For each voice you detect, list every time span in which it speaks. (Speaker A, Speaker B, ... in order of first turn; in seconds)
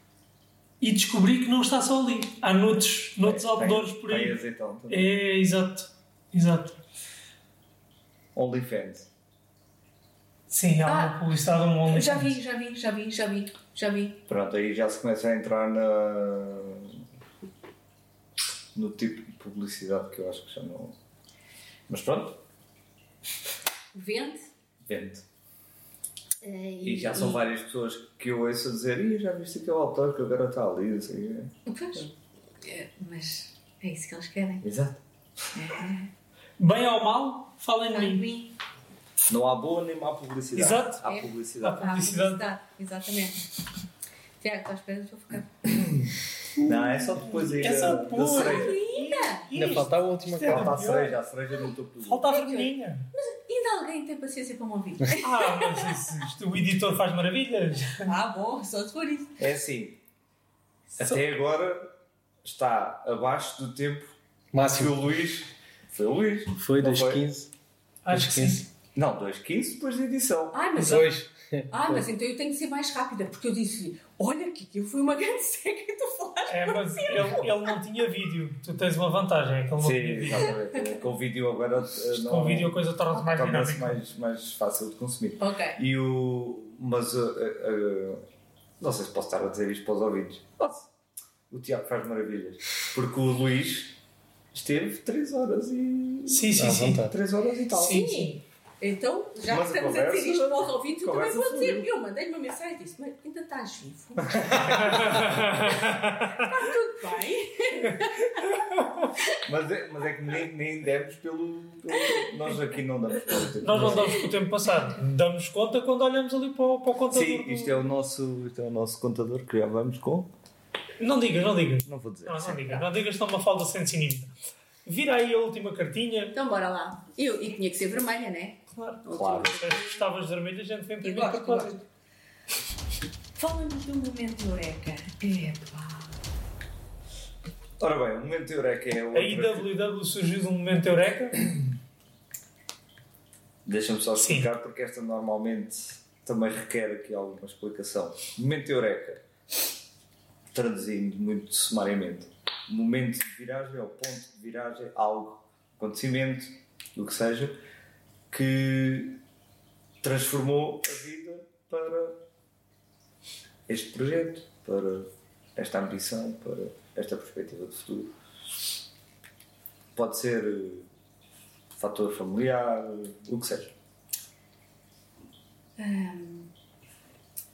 Speaker A: 0.8-4.4, 4.9-6.8, 10.5-12.3, 36.6-38.2, 40.5-41.0, 41.6-42.4, 46.6-51.2, 52.0-53.1, 55.2-58.1, 68.0-68.6, 70.8-71.1, 76.5-80.5, 82.2-84.0, 96.3-97.1, 97.7-98.4, 105.0-106.4, 113.6-117.8, 121.0-124.3, 124.8-126.3, 128.7-131.8, 139.1-141.4, 144.2-144.5
Speaker B: 3.2-5.0, 8.3-9.1, 14.3-17.0, 18.7-20.9, 21.9-22.4, 24.9-25.2, 26.8-31.5, 34.6-35.7, 39.3-41.8, 45.7-48.8, 50.4-52.3, 59.4-60.0, 61.0-61.9, 62.4-67.2, 68.9-70.6, 79.8-88.2, 88.8-90.9, 91.5-94.0, 94.5-98.1, 99.4-101.9, 104.3-105.5, 109.4-114.2, 117.1-120.3, 121.8-122.9, 129.1-129.5, 137.8-139.7, 143.6-149.2, 150.5-157.6, 158.3-159.2, 160.0-162.2, 163.7-168.1, 169.9-170.9, 171.8-173.7
Speaker C: 10.8-11.2, 11.8-14.2, 23.9-24.5, 26.4-27.4, 31.6-34.6, 35.6-36.1, 37.9-38.5, 41.0-43.4, 44.4-45.8, 48.2-49.5, 52.3-56.1, 58.0-59.4, 70.5-71.1, 71.7-77.7, 85.4-85.8, 97.7-105.7, 106.3-108.5, 113.8-114.3, 126.3-129.9, 131.0-131.8, 133.3-136.2, 175.8-176.5
Speaker D: 49.5-50.8, 64.5-65.0, 66.5-67.5, 68.1-68.6, 70.8-72.0, 96.5-97.1